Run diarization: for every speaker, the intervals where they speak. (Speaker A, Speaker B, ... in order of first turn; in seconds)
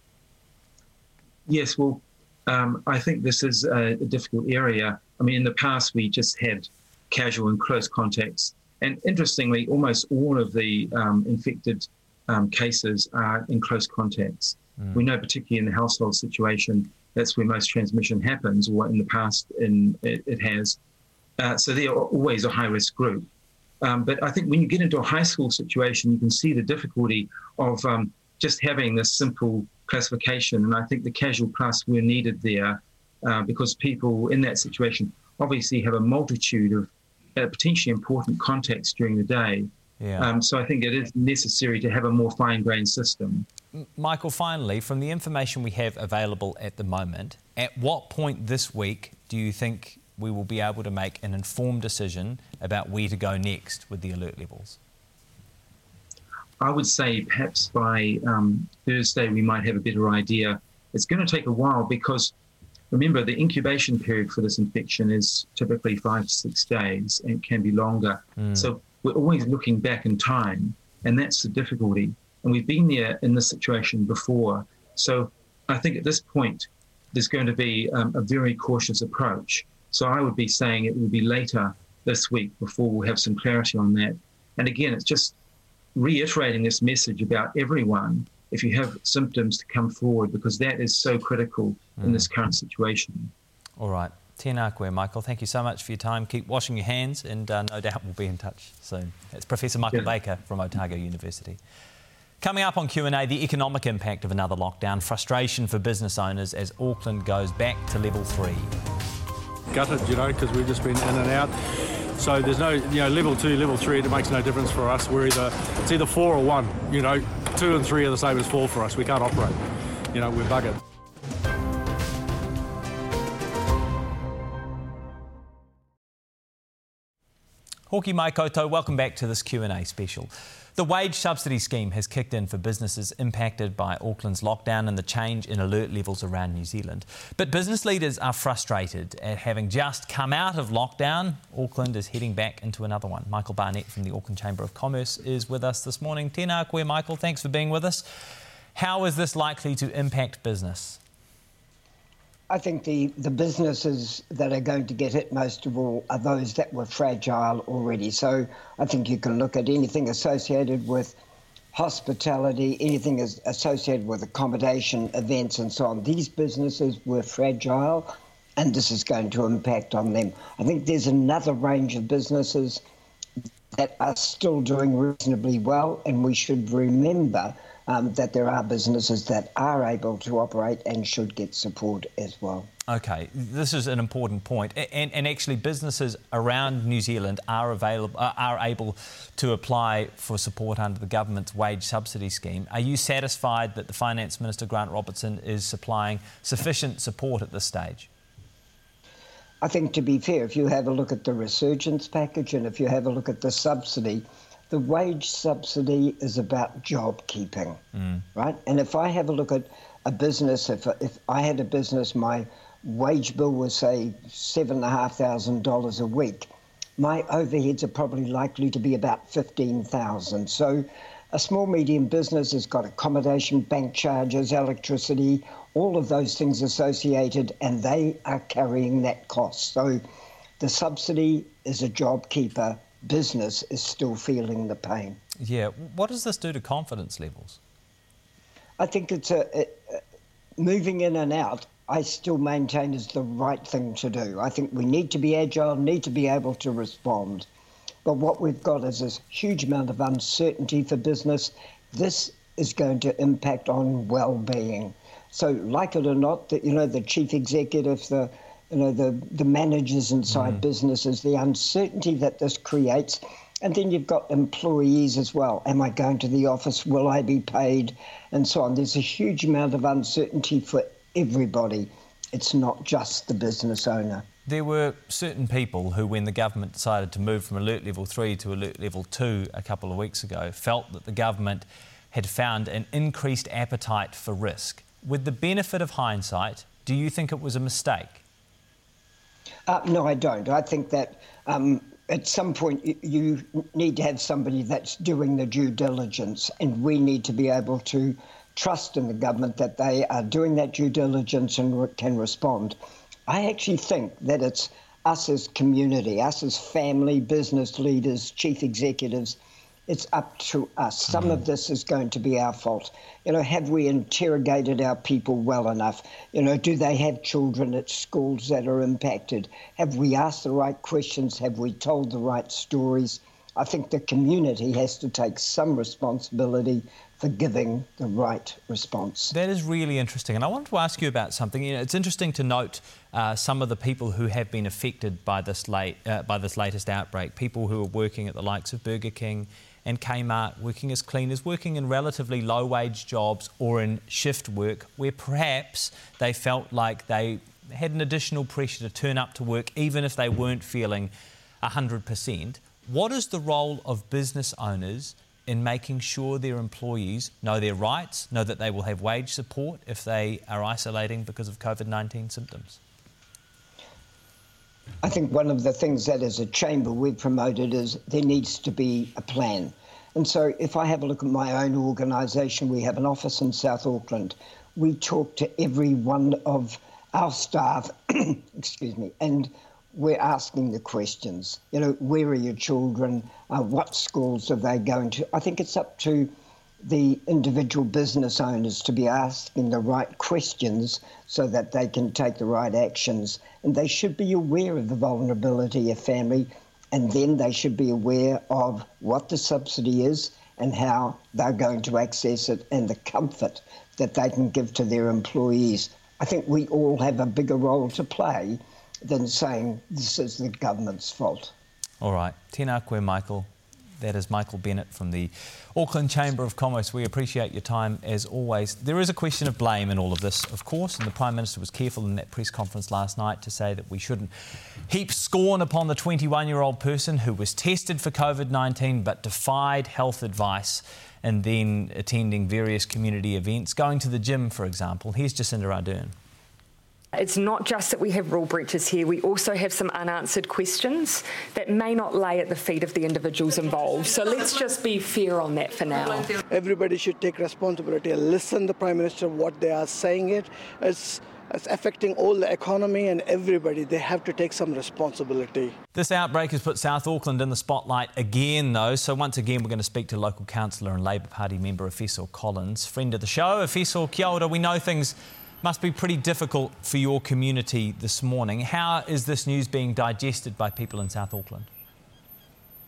Speaker A: 1.5-20.8, 21.4-23.3, 23.8-43.5, 56.6-62.3, 62.9-85.3, 85.9-93.3
Speaker B: 40.0-40.3, 43.7-54.8, 68.4-68.7, 92.0-92.2, 93.8-101.6, 102.4-108.7, 127.9-148.0, 148.7-151.0, 182.9-198.1, 235.4-237.6, 260.3-260.6, 274.4-288.2, 329.3-351.1, 351.6-362.8, 412.0-424.3, 424.9-436.1, 455.9-471.7
Speaker C: 109.7-119.6, 120.1-120.8
Speaker D: 152.5-161.2, 161.7-172.8, 173.7-182.7, 199.6-207.8, 208.3-230.0, 230.6-235.2, 238.8-240.0, 240.6-247.5, 248.0-274.2, 289.7-329.3, 365.0-411.5
Speaker E: 437.1-446.4
Speaker F: 446.4-455.7